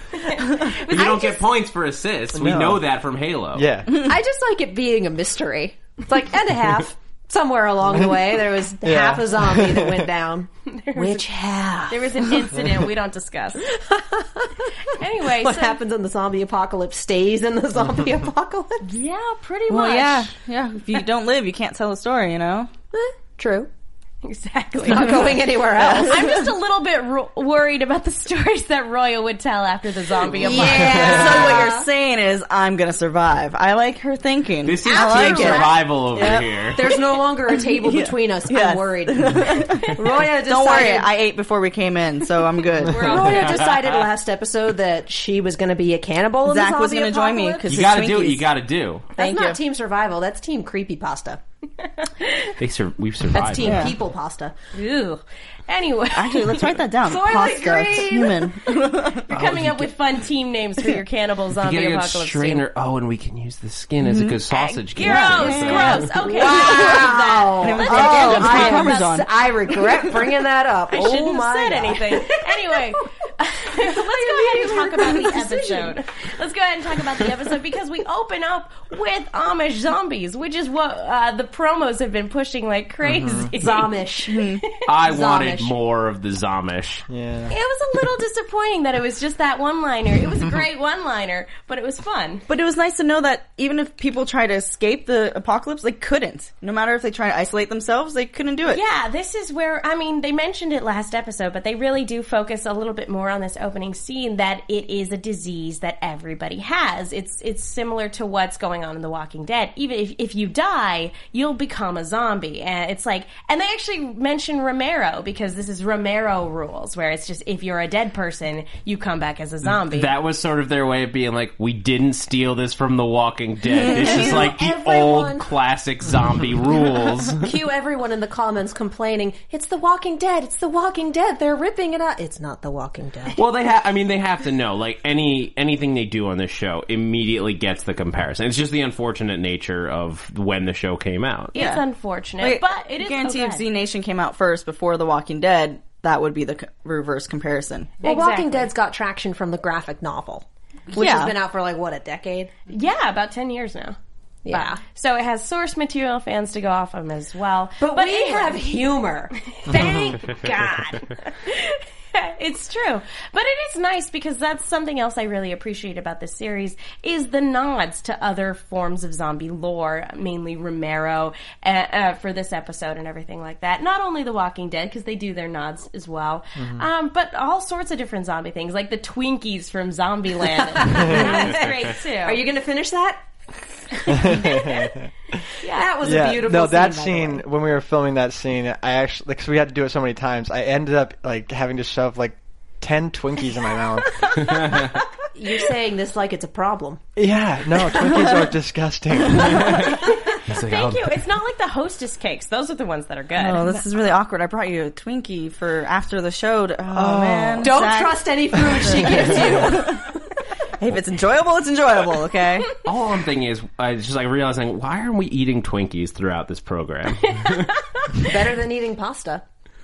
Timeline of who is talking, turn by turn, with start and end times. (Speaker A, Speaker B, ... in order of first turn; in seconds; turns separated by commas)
Speaker A: 0.2-1.0, Speaker B: 0.5-3.7, Speaker C: 0.9-1.4, Speaker D: 2.3-2.8, Speaker D: 3.5-4.0, Speaker C: 3.9-12.6, Speaker D: 7.9-10.1, Speaker A: 10.7-11.2, Speaker A: 11.9-13.7, Speaker C: 13.7-14.7, Speaker A: 14.9-15.8, Speaker C: 15.2-18.9, Speaker A: 18.8-20.3, Speaker E: 19.7-22.7, Speaker C: 22.9-23.7, Speaker A: 24.2-25.4, Speaker C: 24.9-26.3, Speaker E: 25.8-26.4, Speaker A: 26.0-31.5, Speaker C: 30.4-31.9, Speaker E: 30.4-36.9, Speaker B: 34.6-36.8, Speaker C: 34.9-35.9, Speaker C: 36.8-41.1, Speaker E: 37.5-43.3, Speaker A: 42.8-43.6, Speaker C: 42.9-47.8, Speaker B: 43.2-43.8, Speaker E: 46.4-48.4, Speaker B: 47.7-49.1, Speaker E: 49.2-49.6, Speaker C: 49.2-51.4, Speaker A: 52.0-52.5, Speaker B: 52.6-53.9, Speaker C: 53.3-54.5, Speaker E: 53.6-54.0, Speaker A: 54.7-62.6, Speaker E: 56.1-59.3, Speaker B: 59.3-59.8, Speaker B: 61.6-66.1, Speaker E: 64.0-64.4, Speaker A: 64.5-69.1, Speaker E: 65.0-70.2, Speaker C: 66.3-72.9, Speaker A: 70.9-84.0, Speaker C: 73.7-76.0, Speaker D: 83.0-83.5, Speaker C: 83.6-85.8, Speaker E: 84.3-84.6, Speaker B: 84.8-87.0, Speaker D: 87.1-87.5, Speaker A: 87.5-92.4, Speaker E: 92.5-98.8, Speaker A: 98.7-120.1, Speaker B: 119.7-127.5, Speaker E: 123.7-124.5, Speaker C: 123.9-125.4, Speaker C: 127.3-133.4, Speaker B: 133.4-141.6, Speaker A: 141.5-143.6, Speaker E: 141.6-141.8, Speaker E: 142.4-148.0, Speaker A: 148.0-148.7, Speaker C: 148.0-152.5, Speaker E: 150.9-151.4, Speaker A: 152.7-154.0, Speaker C: 154.4-154.8, Speaker A: 154.5-158.6, Speaker C: 157.8-159.9, Speaker A: 159.5-182.4, Speaker D: 176.6-176.9, Speaker C: 180.6-183.2, Speaker D: 180.9-181.3, Speaker C: 184.0-184.9, Speaker D: 184.1-185.1, Speaker A: 185.6-185.9, Speaker C: 185.6-187.4, Speaker D: 186.0-194.8, Speaker B: 194.4-194.8, Speaker C: 195.3-197.0, Speaker D: 197.2-199.8, Speaker E: 198.1-198.4, Speaker B: 199.5-201.2, Speaker A: 200.0-203.9, Speaker E: 203.3-210.1, Speaker D: 206.9-207.7, Speaker C: 207.6-210.2, Speaker E: 210.8-212.7, Speaker B: 212.8-217.7, Speaker A: 217.2-218.3, Speaker C: 218.2-219.4